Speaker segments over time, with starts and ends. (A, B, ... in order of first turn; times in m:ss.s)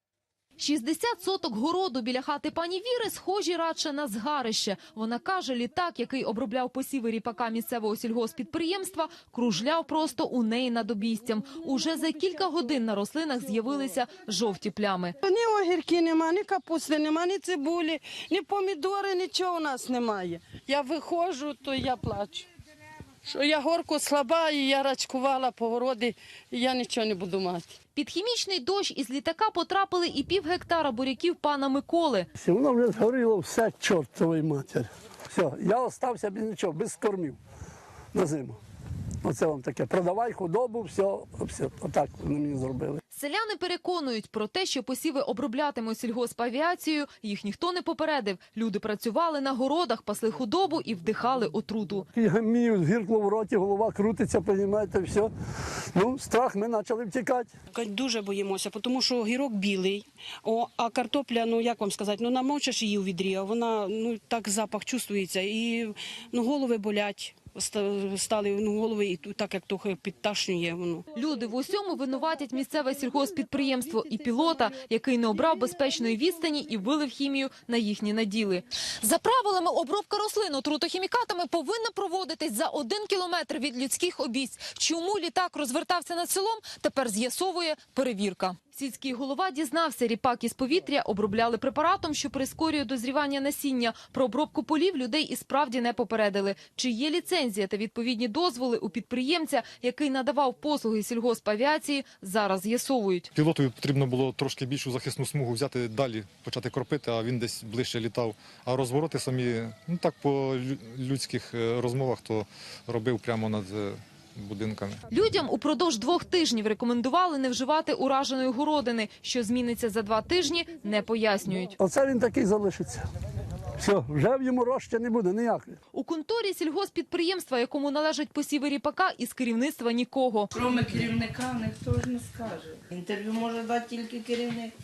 0:00.6-0:15.2 A
0:15.2-0:22.5 B
0:23.2-0:27.8 B
0:27.9-0:32.3 A
0:32.3-0:37.4 C
0:38.1-0:38.6 C
0:39.2-0:43.0 C
0:43.1-0:52.0 A
0:52.1-0:55.3 C
0:55.9-0:57.5 C
0:57.8-1:11.0 D
1:11.1-1:43.3 A
1:43.3-1:55.0 E
1:55.1-2:01.8 A
2:01.8-2:03.0 C
2:03.8-2:05.8 C
2:05.9-2:10.5 A
2:10.5-2:14.7 F